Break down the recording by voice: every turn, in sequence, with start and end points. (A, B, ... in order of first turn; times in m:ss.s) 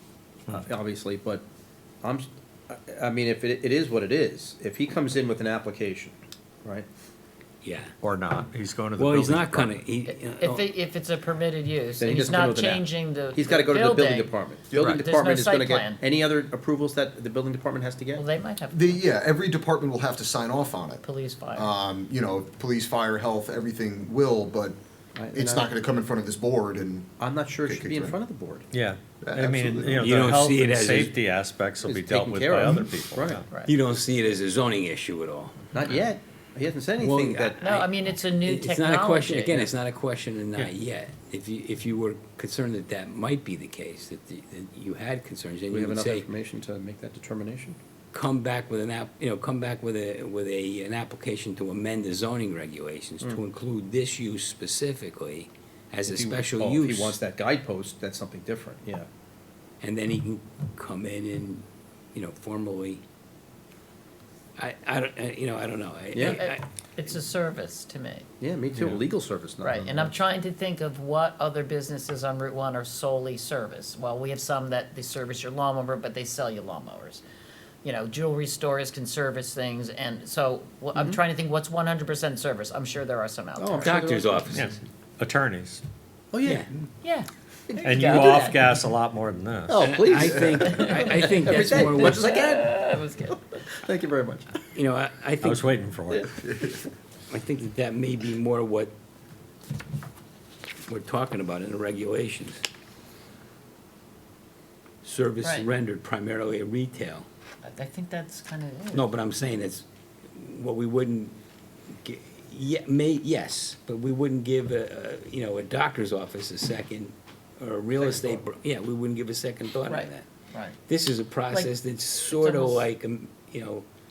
0:00.5-0:01.4 A
0:02.0-0:06.9 A
0:07.6-0:07.9 B
0:08.0-0:09.8 C
0:09.0-0:10.6 B
0:10.0-0:14.4 D
0:12.0-0:12.8 A
0:13.3-0:18.2 A
0:14.7-0:15.0 E
0:14.9-0:16.0 D
0:18.1-0:19.0 D
0:18.7-0:21.0 E
0:21.0-0:21.7 D
0:21.5-0:24.8 E
0:25.1-0:25.7 A
0:25.3-0:28.2 E
0:27.2-0:28.7 A
0:28.7-0:33.4 C
0:29.2-0:30.1 E
0:30.0-0:31.1 B
0:31.8-0:33.4 A
0:33.7-0:35.6 B
0:35.7-0:37.6 A
0:37.0-0:46.2 B
0:37.6-0:39.6 D
0:45.7-0:47.8 A
0:48.1-0:57.2 B
0:56.0-0:59.1 A
0:59.8-1:03.0 B
1:04.6-1:06.6 B
1:06.2-1:08.3 D
1:08.4-1:10.1 A
1:08.8-1:09.0 C
1:09.6-1:17.2 D
1:17.8-1:23.9 D
1:23.6-1:24.4 A
1:23.8-1:24.7 B
1:24.5-1:25.8 C
1:26.3-1:26.6 A
1:26.4-1:26.7 B
1:27.0-1:28.6 D
1:27.8-1:30.0 C
1:29.7-1:30.4 A
1:29.8-1:32.3 B
1:30.6-1:31.4 D
1:30.9-1:32.8 A
1:32.1-1:33.7 D
1:33.7-1:34.6 A
1:34.7-1:35.7 B
1:35.4-1:36.4 C
1:36.4-1:36.8 E
1:37.3-1:38.9 B
1:40.9-1:42.6 B
1:45.0-1:47.3 B
1:47.6-1:49.1 D
1:48.9-1:51.4 B
1:51.9-2:00.2 B
1:58.0-1:58.4 D
1:59.9-2:00.8 D
2:00.9-2:03.8 B
2:02.3-2:02.8 D